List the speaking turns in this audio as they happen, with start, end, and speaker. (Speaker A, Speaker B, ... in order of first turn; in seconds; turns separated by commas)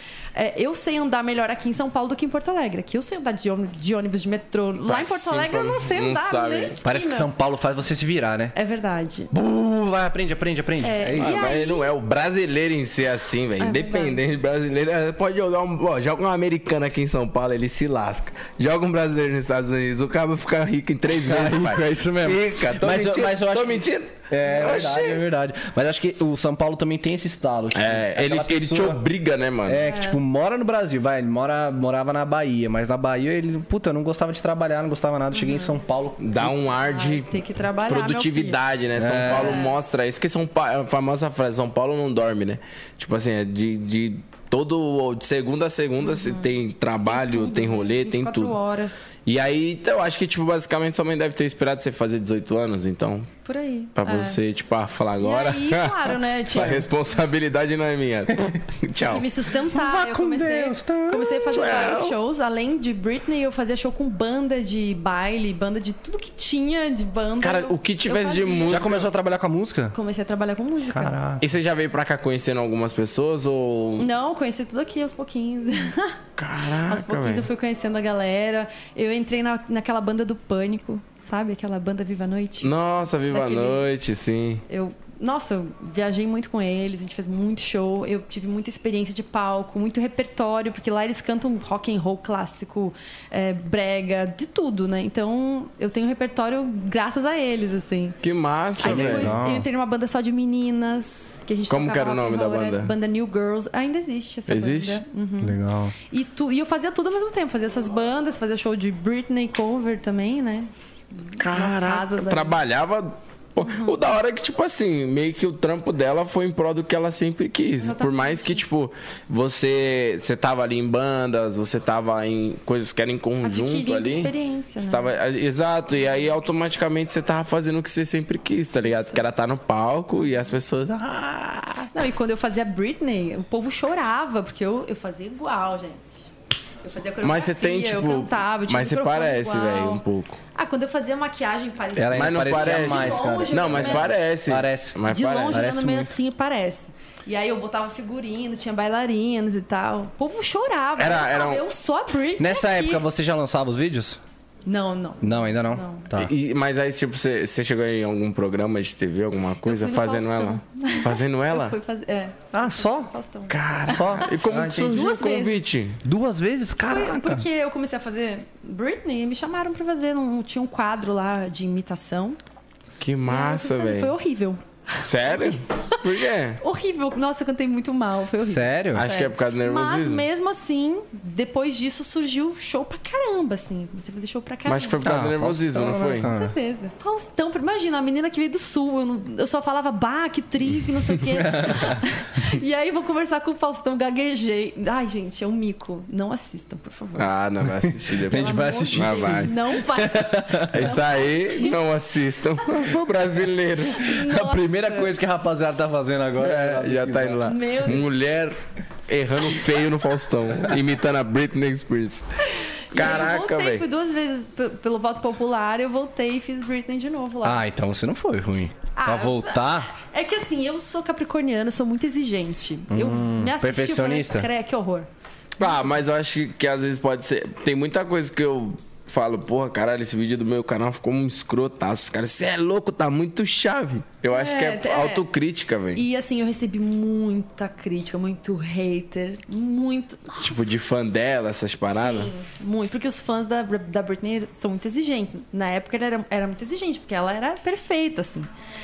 Speaker A: 0.3-7.3, Speaker B: 4.8-6.8, Speaker C: 6.8-8.5, Speaker A: 8.5-9.3, Speaker C: 9.3-11.4, Speaker A: 10.8-11.9, Speaker B: 11.2-25.2, Speaker A: 13.6-14.2, Speaker C: 21.1-29.0, Speaker B: 27.7-29.8, Speaker C: 29.6-36.5, Speaker A: 29.8-30.2, Speaker A: 35.3-35.8, Speaker B: 36.2-37.3, Speaker A: 36.8-38.6, Speaker B: 37.9-48.5, Speaker C: 39.0-39.7, Speaker A: 39.2-39.8, Speaker A: 46.0-49.1, Speaker B: 49.2-53.3, Speaker A: 53.5-54.4, Speaker B: 54.0-59.3, Speaker A: 55.2-56.9, Speaker A: 59.0-68.9, Speaker C: 59.7-61.5, Speaker B: 61.5-62.1, Speaker B: 67.4-69.1, Speaker C: 68.7-70.0, Speaker A: 69.9-71.2, Speaker C: 70.8-71.5, Speaker B: 71.4-74.1, Speaker A: 74.0-76.2, Speaker B: 76.4-77.5, Speaker A: 76.7-82.7, Speaker B: 82.6-84.6, Speaker A: 83.3-83.8, Speaker A: 84.7-98.2, Speaker B: 98.2-99.4, Speaker A: 98.8-105.6, Speaker C: 98.8-99.7, Speaker B: 101.7-102.9, Speaker B: 104.5-105.0, Speaker C: 105.4-105.9, Speaker A: 106.1-112.6, Speaker B: 111.3-131.9, Speaker A: 113.6-114.0, Speaker A: 117.8-118.6, Speaker A: 123.4-125.1, Speaker A: 128.8-129.2, Speaker A: 130.2-130.4, Speaker A: 131.9-136.3, Speaker A: 136.8-140.0, Speaker B: 137.2-140.4, Speaker A: 140.5-144.2, Speaker C: 141.9-145.0, Speaker B: 142.1-145.7, Speaker A: 145.1-153.0, Speaker C: 145.5-146.1, Speaker B: 151.0-151.6, Speaker C: 152.4-154.2, Speaker A: 154.7-156.1, Speaker C: 155.2-156.3, Speaker B: 156.1-161.8, Speaker A: 159.6-165.7, Speaker C: 162.5-163.1, Speaker B: 163.5-166.0, Speaker C: 163.9-165.0, Speaker C: 166.0-167.4, Speaker A: 166.8-172.4, Speaker B: 173.0-174.1, Speaker A: 173.3-185.0, Speaker B: 175.0-176.6, Speaker C: 178.4-179.1, Speaker B: 178.9-180.2, Speaker B: 184.7-186.3, Speaker C: 185.0-186.5, Speaker A: 185.8-197.3, Speaker C: 191.3-192.0, Speaker B: 197.2-199.5, Speaker C: 197.8-200.9, Speaker A: 198.3-201.8, Speaker B: 200.7-204.1, Speaker A: 204.0-205.1, Speaker C: 204.1-207.5, Speaker B: 206.4-212.2, Speaker A: 207.4-208.0, Speaker B: 212.9-213.9, Speaker A: 212.9-217.6, Speaker C: 217.4-219.9, Speaker A: 218.9-225.1, Speaker C: 222.9-224.5, Speaker B: 225.6-236.0, Speaker A: 234.2-235.2, Speaker A: 235.9-240.7, Speaker B: 240.4-242.3, Speaker A: 241.9-248.5